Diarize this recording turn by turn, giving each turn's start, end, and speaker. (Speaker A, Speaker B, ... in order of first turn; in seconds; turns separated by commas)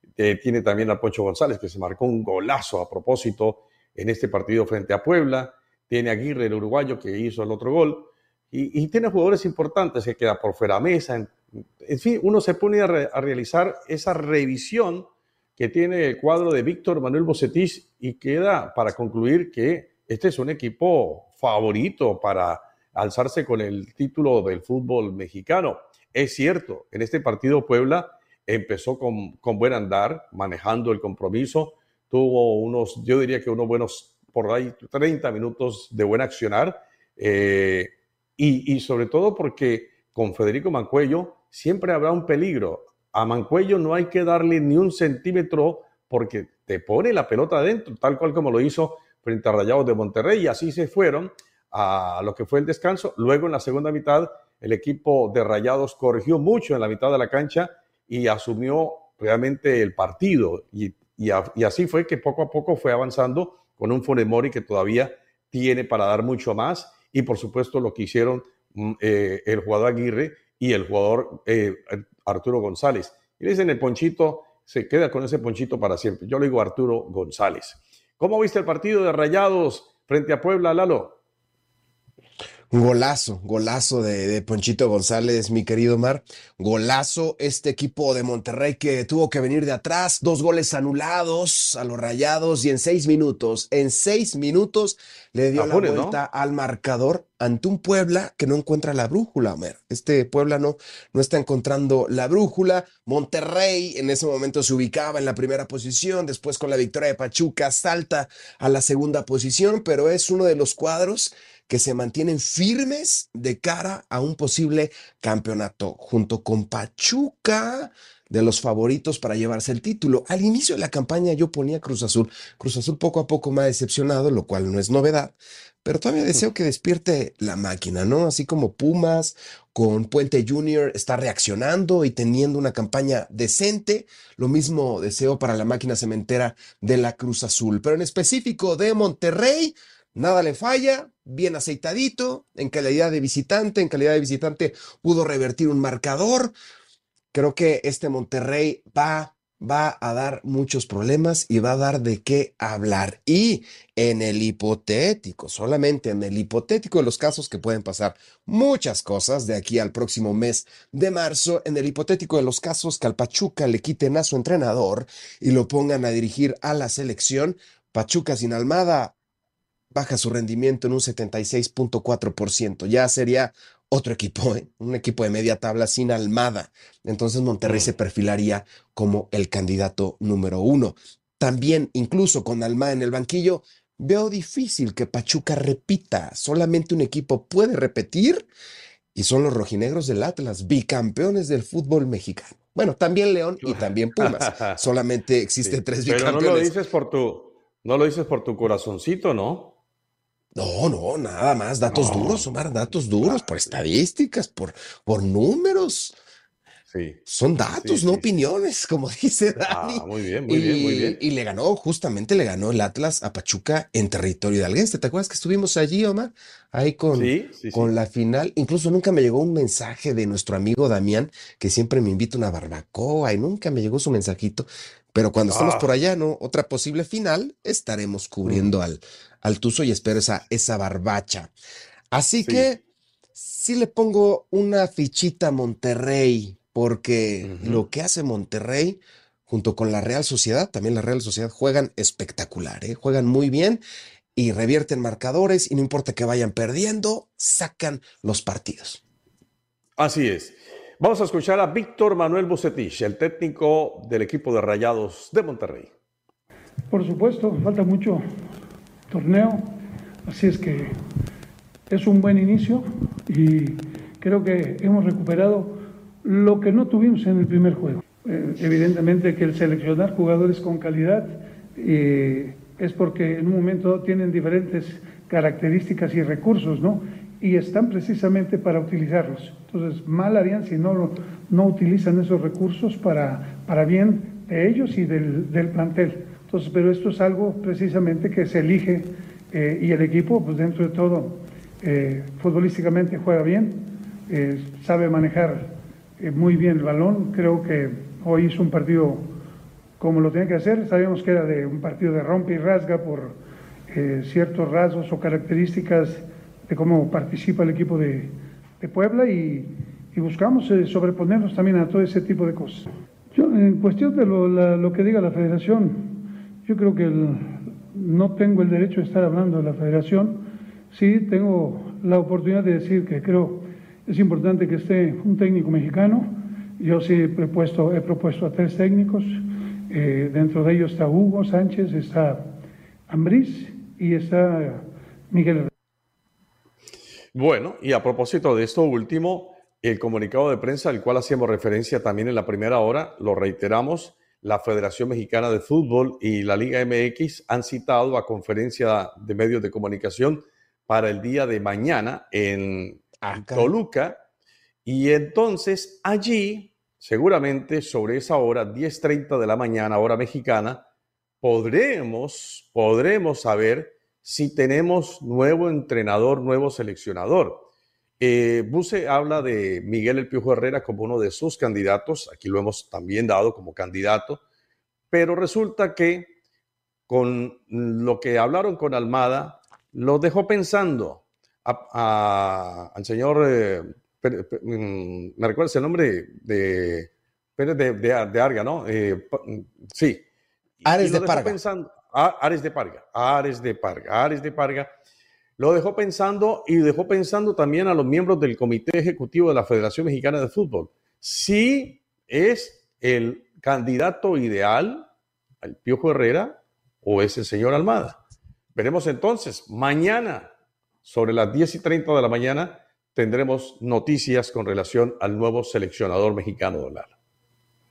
Speaker A: 0.2-81.2, Speaker B: 82.7-146.6, Speaker A: 95.5-96.2, Speaker B: 147.3-169.1, Speaker B: 169.9-188.5, Speaker A: 177.7-177.9, Speaker B: 189.1-196.7, Speaker A: 193.6-194.8, Speaker A: 195.6-199.7, Speaker B: 200.6-206.1, Speaker A: 201.9-202.5, Speaker A: 203.1-203.8, Speaker A: 206.9-208.3, Speaker B: 207.3-231.5, Speaker A: 209.7-211.2, Speaker A: 217.1-217.9, Speaker A: 225.5-225.9, Speaker B: 232.1-232.8, Speaker B: 233.3-243.8, Speaker A: 237.4-237.8, Speaker B: 244.4-249.0, Speaker A: 250.0-255.9, Speaker C: 256.9-258.2, Speaker C: 259.1-259.7, Speaker C: 260.3-260.9, Speaker C: 261.9-299.2, Speaker C: 300.0-303.4, Speaker C: 303.9-329.4, Speaker C: 329.9-332.5, Speaker C: 333.1-335.7, Speaker A: 337.3-354.2, Speaker B: 353.2-353.7, Speaker A: 354.9-360.8, Speaker A: 361.4-367.6, Speaker A: 368.2-374.4, Speaker A: 375.1-376.3, Speaker A: 377.1-390.2, Speaker A: 390.8-394.9, Speaker B: 390.9-391.6, Speaker A: 395.6-405.1, Speaker A: 405.6-408.2, Speaker A: 408.8-410.5, Speaker A: 411.0-417.1